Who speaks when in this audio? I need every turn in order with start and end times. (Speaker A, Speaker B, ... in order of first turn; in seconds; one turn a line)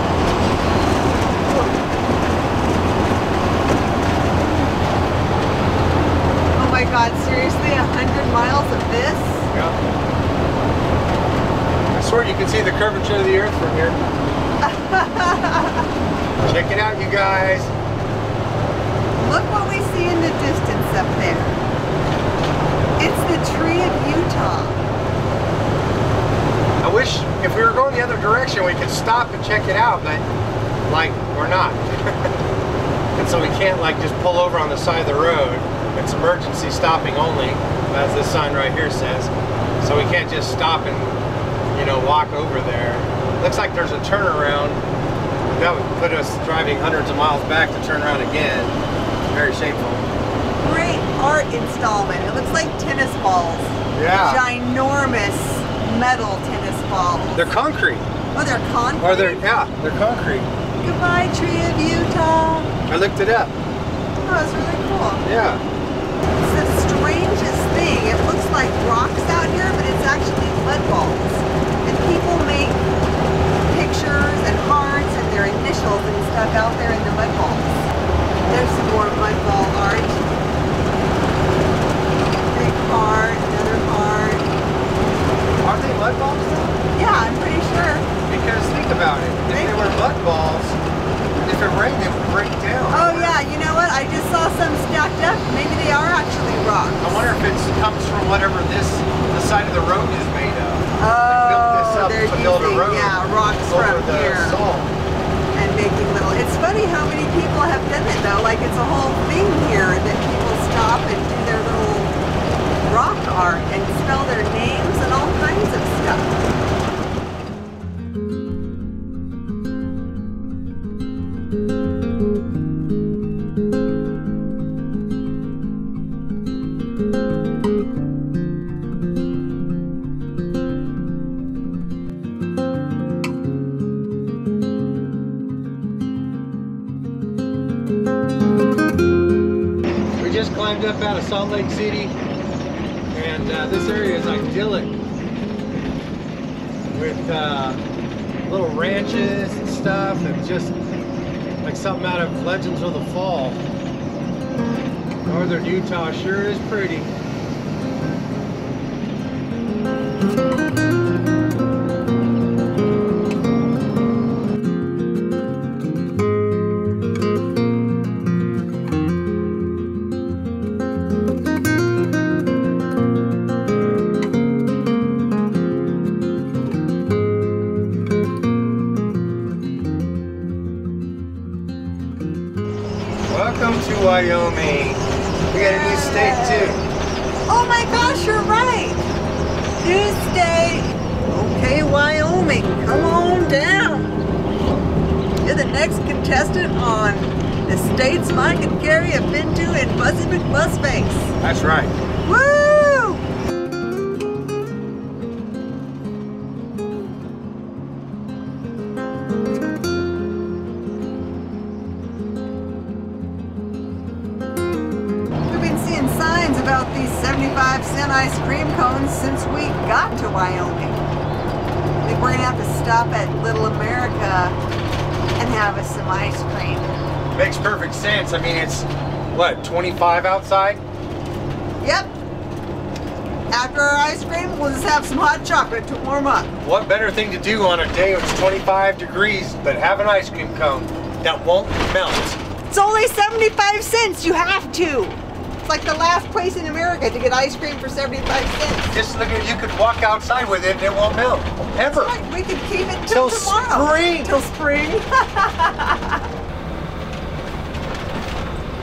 Speaker A: 1.4-1.7
Speaker A: 6.5-9.5
Speaker B: 9.5-9.8
Speaker B: 11.9-14.0
Speaker A: 14.6-15.9
Speaker B: 16.4-17.7
Speaker A: 19.2-21.6
Speaker A: 23.0-24.8
Speaker B: 26.8-30.2
Speaker B: 30.9-32.4
Speaker B: 33.1-44.8
Speaker B: 45.5-48.8
Speaker B: 49.3-50.1
Speaker A: 50.6-57.5
Speaker B: 53.9-54.4
Speaker B: 57.3-58.1
Speaker A: 58.3-59.4
Speaker B: 59.0-60.5
Speaker A: 60.8-62.7
Speaker B: 62.9-63.6
Speaker A: 64.2-65.2
Speaker B: 65.2-65.6
Speaker A: 66.4-72.8
Speaker A: 73.7-77.9
Speaker A: 78.4-80.3
Speaker A: 82.5-84.5
Speaker B: 85.6-86.8
Speaker A: 86.9-88.1
Speaker B: 88.2-90.8
Speaker A: 89.5-89.9
Speaker B: 91.3-93.4
Speaker A: 92.9-97.2
Speaker B: 97.0-104.9
Speaker A: 101.0-104.6
Speaker A: 105.5-112.1
Speaker A: 112.8-116.4
Speaker B: 140.2-142.1
Speaker B: 143.1-144.9
Speaker B: 146.9-147.8
Speaker B: 148.4-150.8
Speaker B: 151.6-153.6
Speaker B: 155.2-157.1
Speaker B: 183.3-186.8
Speaker A: 185.5-186.8
Speaker A: 187.5-189.0
Speaker A: 189.8-194.2
Speaker A: 195.4-201.3
Speaker B: 201.4-201.9
Speaker A: 202.2-203.2
Speaker A: 215.5-221.1
Speaker A: 222.0-224.6
Speaker A: 225.4-227.0
Speaker B: 227.3-230.8
Speaker A: 231.8-232.1
Speaker A: 233.5-236.5
Speaker B: 236.6-242.4
Speaker A: 242.7-249.0
Speaker B: 248.9-252.2
Speaker A: 251.9-256.2
Speaker B: 253.1-254.4